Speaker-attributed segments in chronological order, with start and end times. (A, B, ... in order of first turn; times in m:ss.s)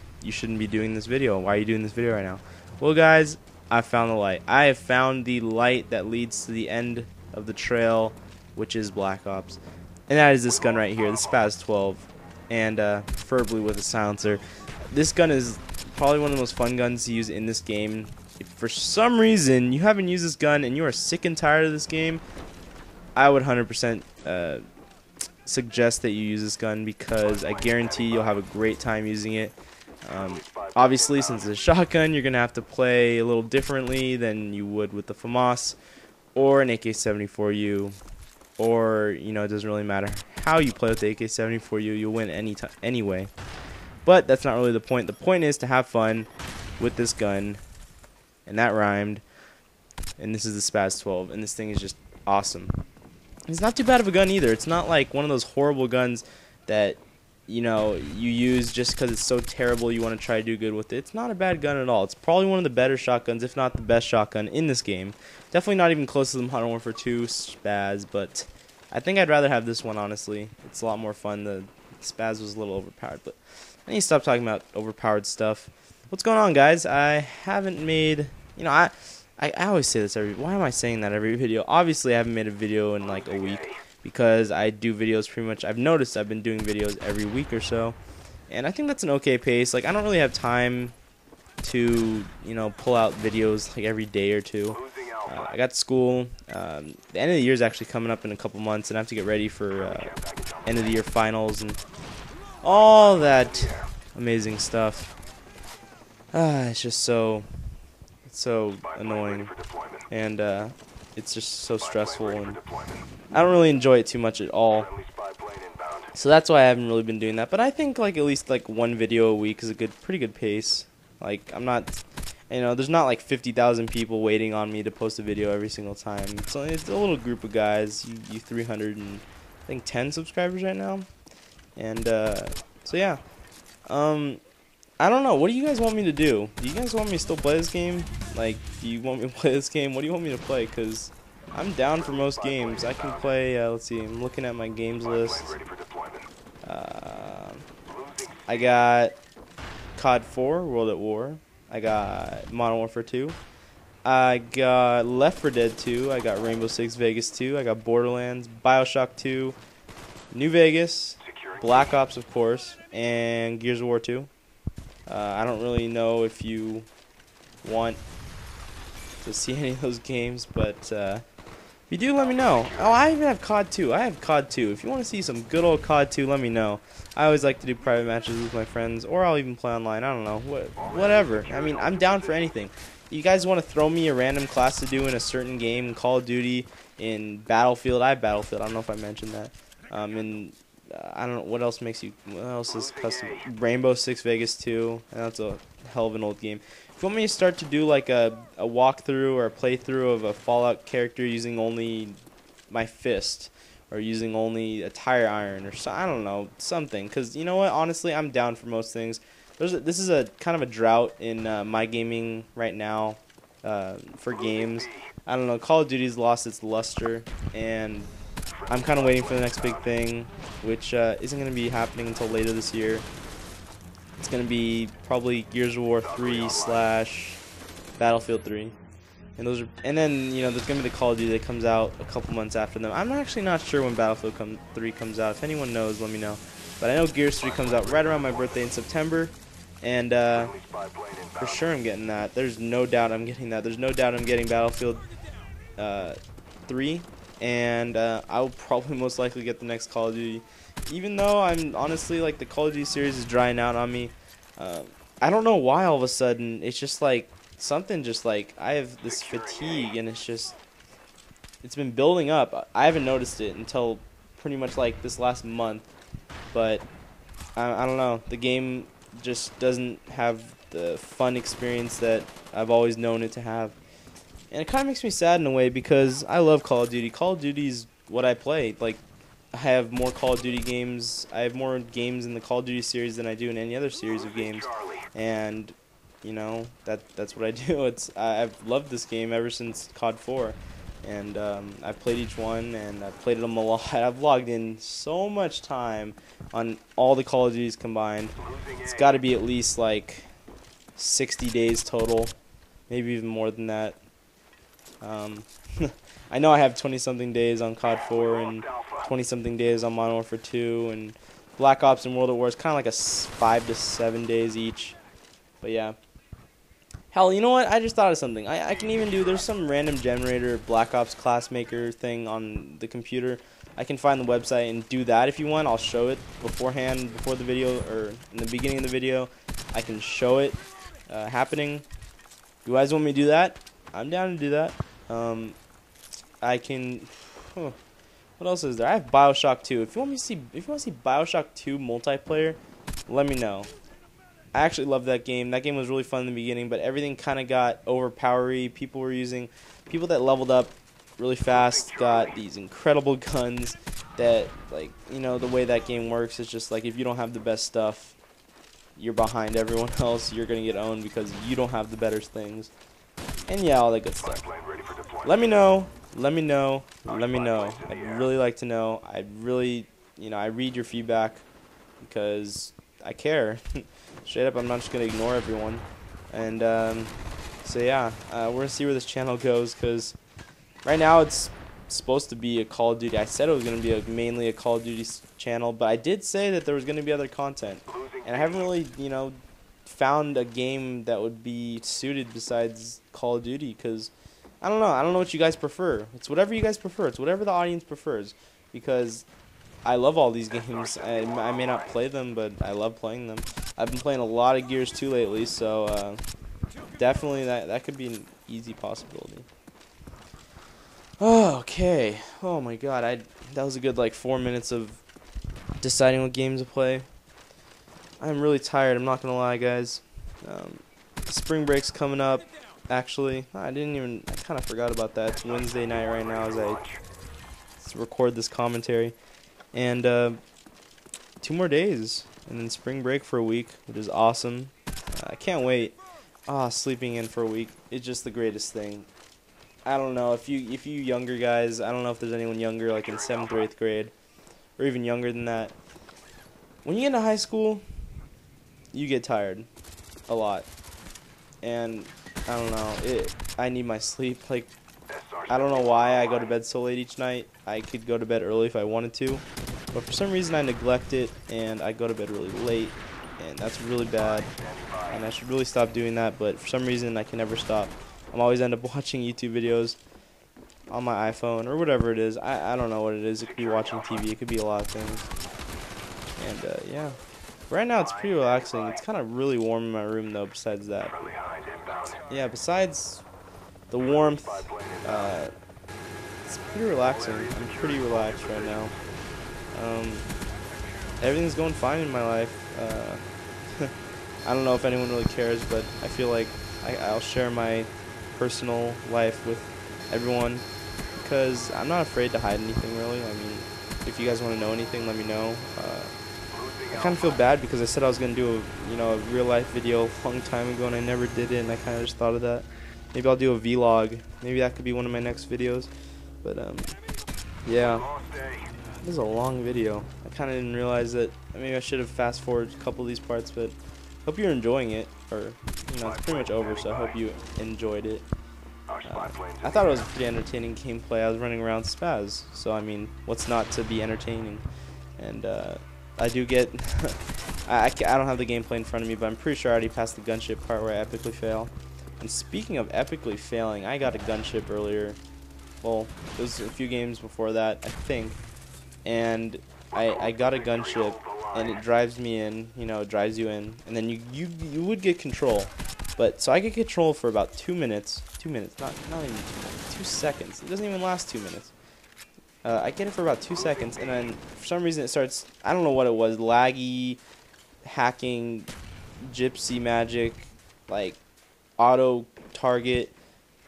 0:00.2-0:22.2 A
0:23.2-0:24.6 A
0:25.4-0:35.8 A
0:36.3-0:38.0 A
0:38.6-0:43.3 A
0:44.0-0:47.6 A
0:48.4-0:49.2 A
0:50.2-0:52.8 A
0:53.5-1:28.0 A
1:28.5-1:30.9 A
1:31.6-1:41.8 A
1:42.6-1:45.1 A
1:46.3-1:47.4 A
1:48.2-1:49.5 A
1:50.1-1:52.6 A
1:53.3-1:54.9 A
1:56.1-2:11.1 A
2:11.8-2:13.2 A
2:13.9-2:14.4 A
2:15.0-2:25.6 A
2:26.6-2:27.6 A
2:28.5-2:29.2 A
2:29.9-2:33.4 A
2:34.0-2:39.6 A
2:40.3-2:44.3 A
2:45.1-2:46.9 A
2:47.6-2:48.0 A
2:49.2-2:51.2 A
2:51.9-3:22.2 A
3:22.7-3:38.1 A
3:38.7-3:43.1 A
3:44.2-3:47.4 A
3:48.0-3:48.8 A
3:49.4-4:00.6 A
4:01.4-4:05.0 A
4:05.8-4:20.6 A
4:21.6-4:25.9 A
4:26.5-4:26.8 A
4:27.6-4:33.8 A
4:34.5-4:39.0 A
4:39.5-5:00.3 A
5:01.0-5:02.3 A
5:02.9-5:04.0 A
5:05.0-5:15.0 A
5:15.6-5:16.0 A
5:17.1-5:31.8 A
5:32.6-5:35.6 A
5:36.4-5:37.8 A
5:38.4-5:43.7 A
5:44.5-5:58.2 A
5:59.0-6:02.7 A
6:03.5-6:04.5 A
6:05.2-6:11.4 A
6:12.0-6:17.1 A
6:17.6-6:20.2 A
6:20.8-6:39.2 A
6:39.8-6:46.2 A
6:47.0-6:49.5 A
6:51.2-6:55.0 A
6:55.8-6:57.1 A
6:58.2-7:06.8 A
7:07.8-7:09.2 A
7:09.7-7:10.4 A
7:11.4-7:16.0 A
7:16.5-7:19.1 A
7:19.8-7:24.1 A
7:24.8-7:25.8 A
7:26.8-7:27.8 A
7:28.9-7:29.7 A
7:30.3-7:30.7 A
7:31.6-7:34.7 A
7:35.5-7:44.5 A
7:45.1-7:50.0 A
7:50.9-7:55.2 A
7:56.4-7:57.2 A
7:57.7-8:01.3 A
8:02.3-8:03.2 A
8:03.9-8:05.5 A
8:06.4-8:08.9 A
8:09.7-8:10.3 A
8:11.2-8:13.9 A
8:14.4-8:20.6 A
8:21.2-8:26.1 A
8:26.9-8:35.9 A
8:36.4-8:36.9 A
8:37.6-8:38.1 A
8:39.0-8:48.3 A
8:49.0-8:54.6 A
8:55.2-9:05.2 A
9:05.8-9:08.4 A
9:09.0-9:21.7 A
9:22.6-9:27.2 A
9:27.8-9:28.7 A
9:29.2-9:31.2 A
9:31.8-9:33.2 A